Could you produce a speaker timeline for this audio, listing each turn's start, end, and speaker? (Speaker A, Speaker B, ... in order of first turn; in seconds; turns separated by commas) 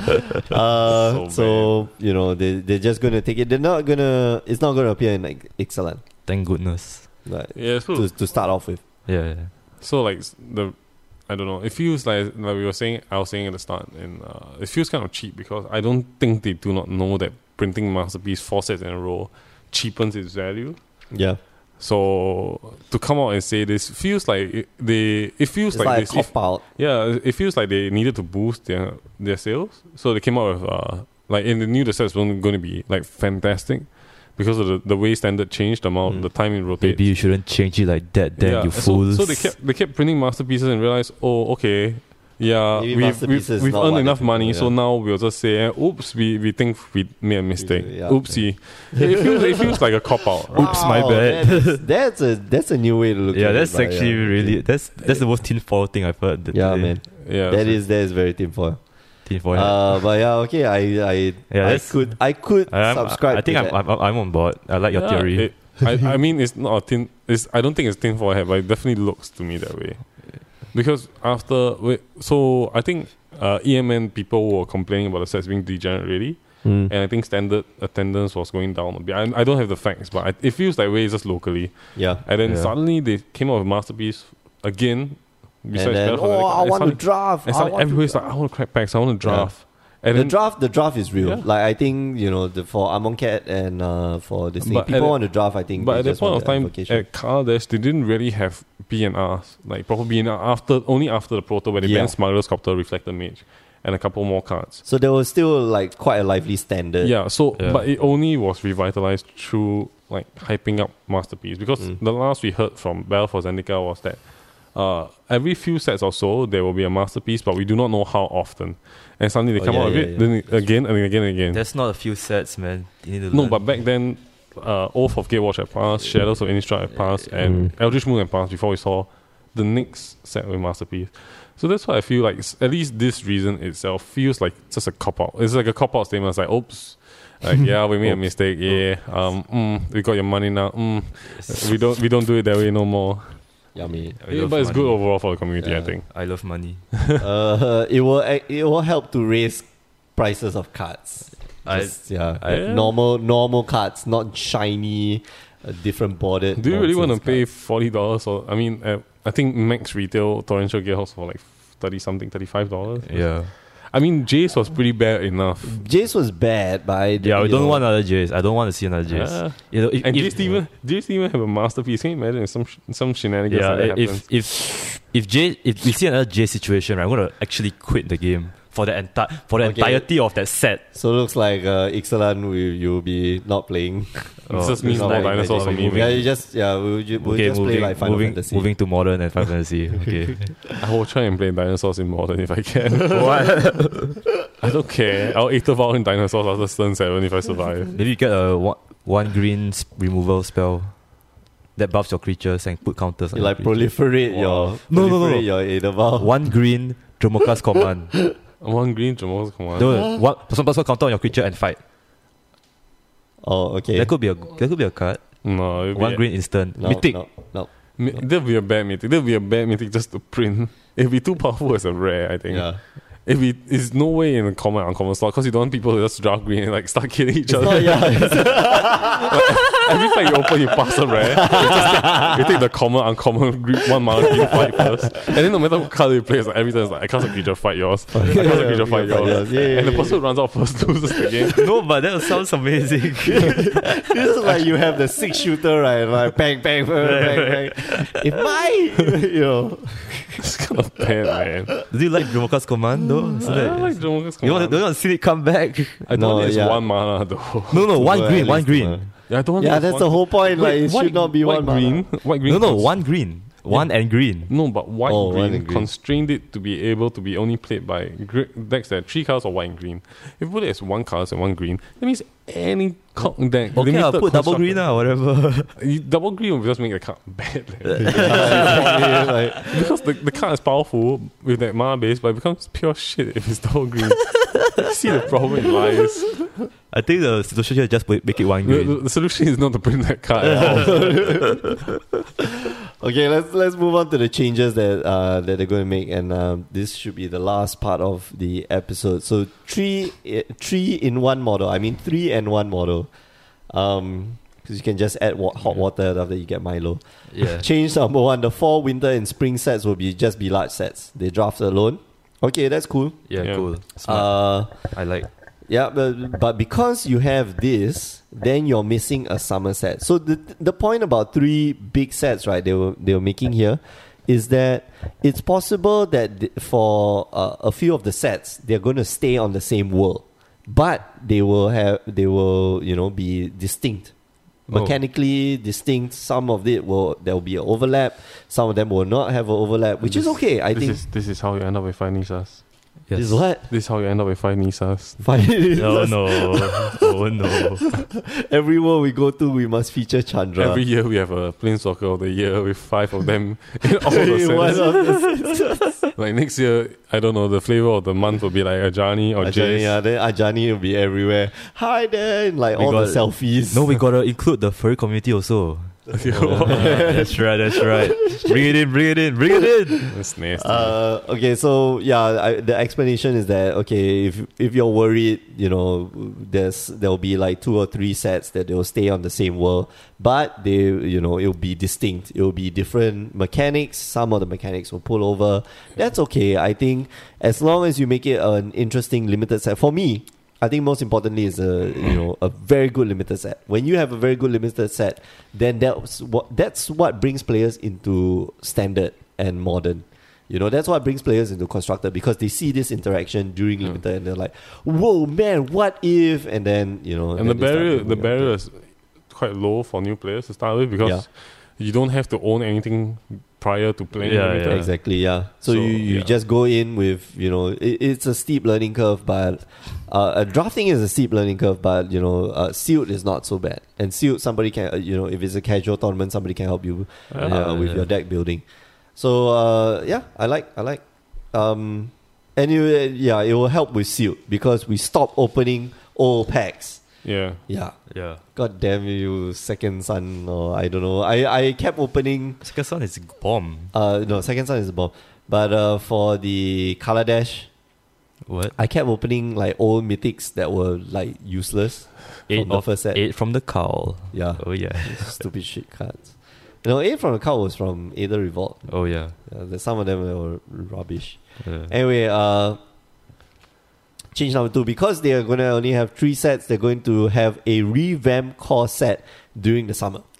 Speaker A: 0.5-6.0, Speaker B: 0.9-1.8, Speaker C: 6.2-7.1, Speaker A: 7.2-8.8, Speaker B: 7.5-8.1, Speaker C: 9.1-9.5, Speaker B: 9.8-20.8, Speaker A: 21.1-21.4, Speaker B: 21.8-37.1, Speaker A: 25.7-26.6, Speaker C: 36.8-39.5, Speaker B: 38.4-50.9, Speaker A: 42.7-44.7, Speaker A: 47.6-49.6, Speaker A: 50.5-54.8, Speaker C: 50.5-51.8, Speaker C: 53.3-57.0, Speaker A: 56.5-63.8, Speaker B: 57.2-57.8, Speaker C: 59.2-60.1, Speaker C: 61.5-65.5, Speaker B: 64.9-91.5, Speaker A: 76.6-76.9, Speaker A: 82.0-82.2, Speaker C: 82.4-82.7, Speaker A: 85.7-88.4, Speaker A: 89.2-97.0, Speaker B: 94.6-104.8, Speaker A: 101.8-102.1, Speaker A: 104.8-107.1, Speaker B: 107.0-121.6, Speaker C: 107.6-107.8, Speaker A: 119.5-120.6, Speaker C: 121.5-123.6, Speaker B: 123.3-143.5, Speaker A: 127.4-127.7, Speaker C: 138.0-138.8, Speaker C: 141.3-141.7, Speaker A: 143.7-144.2, Speaker C: 144.1-145.0, Speaker B: 144.3-146.0, Speaker A: 145.6-145.9, Speaker C: 146.1-146.8, Speaker A: 147.2-157.4, Speaker C: 151.6-152.8, Speaker B: 152.4-152.9, Speaker B: 156.6-165.8, Speaker C: 163.0-163.5, Speaker A: 165.6-167.8, Speaker C: 167.2-170.6, Speaker B: 169.1-174.2, Speaker C: 173.5-180.8, Speaker A: 179.6-180.1, Speaker A: 180.9-188.7, Speaker B: 184.5-186.2, Speaker C: 184.5-186.3, Speaker C: 187.2-190.5, Speaker B: 190.8-193.8, Speaker C: 193.1-194.2, Speaker B: 194.6-197.9, Speaker C: 197.9-200.9, Speaker C: 201.8-205.5, Speaker A: 203.3-206.3, Speaker C: 206.2-208.1, Speaker B: 208.6-210.1, Speaker C: 209.8-211.8, Speaker A: 213.4-214.1, Speaker C: 213.9-215.2, Speaker B: 215.4-216.2, Speaker C: 215.9-217.2, Speaker A: 216.8-218.2, Speaker B: 218.0-241.6, Speaker A: 222.5-222.8, Speaker A: 227.5-229.3, Speaker A: 231.2-232.6, Speaker A: 234.1-234.9, Speaker A: 238.1-240.2, Speaker C: 238.2-238.8, Speaker C: 241.5-244.0, Speaker A: 243.5-250.4, Speaker C: 247.0-248.2, Speaker B: 250.4-251.9, Speaker C: 251.9-256.1, Speaker A: 253.2-253.7, Speaker B: 253.4-254.8, Speaker B: 256.1-257.9, Speaker A: 256.1-256.8, Speaker C: 257.7-259.0, Speaker A: 257.9-262.0, Speaker B: 259.3-263.0, Speaker C: 262.4-264.5, Speaker B: 264.5-274.8, Speaker A: 265.1-265.9, Speaker C: 273.7-275.7, Speaker B: 275.8-286.5, Speaker C: 277.9-279.1, Speaker A: 278.1-279.6, Speaker C: 286.9-289.0, Speaker B: 288.6-291.7, Speaker A: 290.4-291.8, Speaker A: 292.6-303.1, Speaker A: 303.7-313.3, Speaker C: 307.3-307.6, Speaker C: 313.3-315.3, Speaker B: 313.4-313.7, Speaker A: 314.0-314.9, Speaker A: 315.7-334.1, Speaker A: 334.7-341.0, Speaker C: 334.7-335.0, Speaker B: 340.0-342.6, Speaker C: 343.1-343.4, Speaker A: 343.1-343.6, Speaker B: 343.7-345.2, Speaker A: 345.2-347.1, Speaker C: 345.8-347.9, Speaker A: 347.9-350.8, Speaker B: 350.6-355.1, Speaker A: 354.0-355.9, Speaker B: 356.1-360.0, Speaker A: 359.4-364.0, Speaker C: 362.7-370.1, Speaker B: 366.1-367.2, Speaker A: 366.6-368.6, Speaker B: 370.1-371.0, Speaker A: 370.6-408.5, Speaker B: 407.4-416.3, Speaker C: 414.2-414.9, Speaker A: 414.7-428.6, Speaker B: 427.3-427.6, Speaker C: 427.4-428.1, Speaker A: 429.1-431.0, Speaker A: 431.5-437.0, Speaker B: 437.2-437.6, Speaker A: 437.7-442.6, Speaker C: 438.1-438.4, Speaker C: 442.6-443.9, Speaker A: 443.9-447.7, Speaker C: 448.4-448.7, Speaker A: 448.8-453.2, Speaker C: 452.5-455.4, Speaker A: 454.3-458.9, Speaker C: 458.9-459.3, Speaker A: 459.4-462.8, Speaker C: 461.6-461.9, Speaker A: 464.3-470.2